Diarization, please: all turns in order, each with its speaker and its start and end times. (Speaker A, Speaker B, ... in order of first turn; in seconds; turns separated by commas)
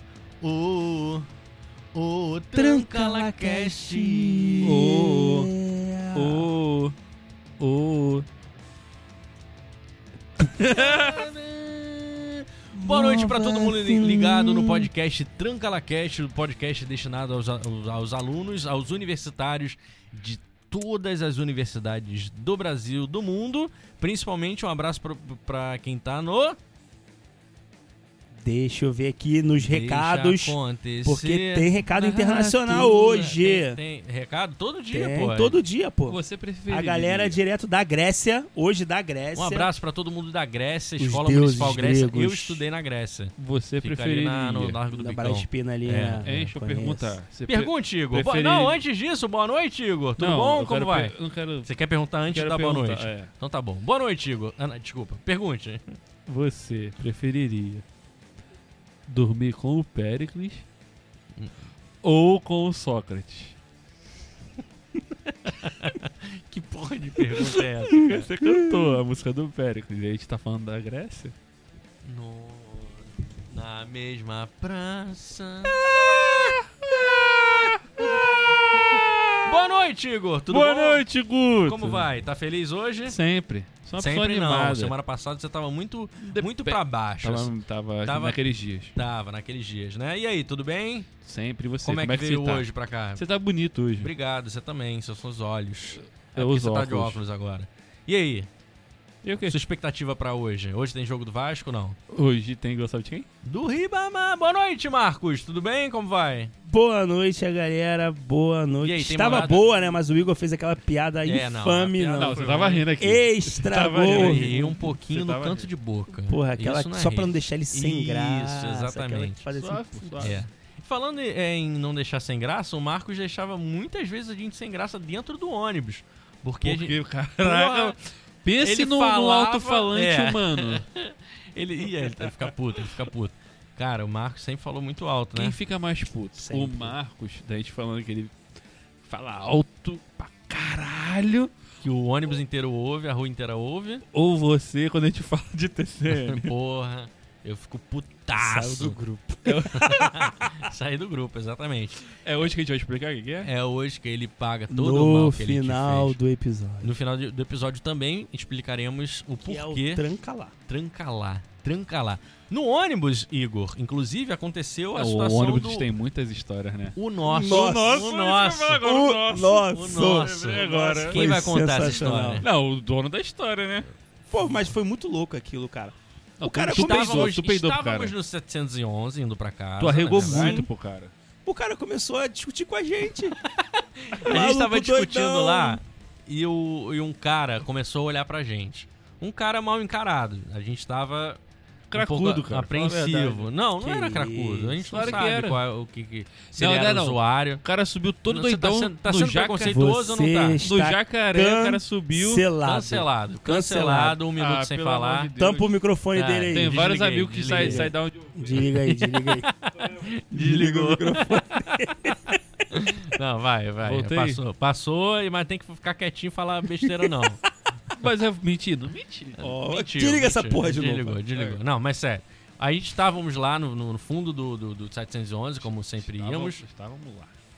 Speaker A: 0.4-1.2, Speaker A: 1.9-4.8, Speaker B: 2.5-6.5, Speaker C: 4.6-5.5, Speaker C: 6.1-7.0, Speaker C: 7.6-8.2, Speaker C: 10.4-11.3, Speaker A: 10.6-26.6, Speaker B: 12.7-14.9, Speaker B: 28.3-33.8, Speaker A: 29.6-35.6, Speaker B: 34.9-39.7, Speaker C: 36.1-37.4, Speaker A: 39.3-46.3, Speaker B: 41.0-42.6, Speaker C: 43.4-44.8, Speaker B: 44.9-47.2, Speaker C: 46.2-48.8, Speaker A: 47.5-56.0, Speaker C: 50.2-51.7, Speaker C: 52.3-53.3, Speaker C: 56.3-57.8, Speaker C: 59.1-60.6, Speaker C: 62.0-63.5, Speaker A: 65.3-68.3, Speaker C: 67.4-71.3, Speaker B: 68.4-69.0, Speaker A: 72.0-75.9, Speaker C: 76.3-78.2, Speaker C: 78.9-79.6, Speaker A: 79.0-81.0, Speaker C: 80.5-82.1, Speaker A: 81.6-83.2, Speaker C: 83.0-84.9, Speaker A: 84.0-87.5, Speaker C: 86.2-89.0, Speaker A: 88.0-88.4, Speaker A: 88.9-91.1, Speaker C: 91.2-94.1, Speaker A: 91.8-93.2, Speaker A: 94.0-98.5, Speaker C: 95.9-97.2, Speaker C: 99.2-99.6, Speaker A: 99.4-102.0, Speaker C: 102.1-103.3, Speaker A: 103.4-106.5, Speaker B: 106.6-112.4, Speaker A: 108.8-109.8, Speaker A: 111.2-112.9, Speaker C: 112.2-115.7, Speaker B: 113.0-114.7, Speaker A: 114.0-119.4, Speaker B: 116.2-120.4, Speaker C: 119.5-120.4, Speaker A: 120.2-128.0, Speaker C: 126.6-130.8, Speaker A: 128.6-135.6, Speaker C: 135.3-138.3, Speaker B: 136.4-136.9, Speaker C: 139.1-141.5, Speaker A: 141.8-144.0, Speaker C: 144.1-146.5, Speaker A: 146.1-148.9, Speaker B: 148.4-149.7, Speaker C: 149.4-150.4, Speaker A: 149.7-152.2, Speaker C: 152.2-153.5, Speaker A: 153.4-156.2, Speaker B: 154.7-156.9, Speaker A: 156.8-160.1, Speaker B: 159.4-160.5, Speaker A: 160.7-165.9, Speaker C: 164.9-173.9, Speaker A: 166.9-172.4, Speaker B: 167.2-168.1, Speaker B: 168.8-172.4, Speaker B: 174.3-177.3, Speaker C: 176.4-178.1, Speaker A: 176.7-180.6, Speaker C: 179.8-181.1, Speaker B: 180.1-180.7, Speaker B: 181.4-183.4, Speaker A: 183.4-191.4, Speaker B: 184.2-185.8, Speaker C: 191.9-193.5, Speaker A: 191.9-197.6, Speaker B: 193.8-195.2, Speaker C: 194.9-195.6, Speaker C: 196.5-199.9, Speaker A: 198.3-200.6, Speaker B: 199.6-204.2, Speaker C: 200.6-202.5, Speaker A: 202.6-205.3, Speaker C: 204.3-205.7, Speaker B: 205.4-206.8, Speaker A: 206.1-207.9, Speaker C: 206.5-208.7, Speaker B: 207.5-209.5, Speaker A: 208.8-217.4, Speaker B: 210.3-212.0, Speaker C: 213.8-214.4, Speaker B: 216.8-217.1, Speaker C: 217.9-219.6, Speaker A: 219.4-226.6, Speaker B: 219.4-221.2, Speaker C: 221.3-221.6, Speaker C: 225.6-227.3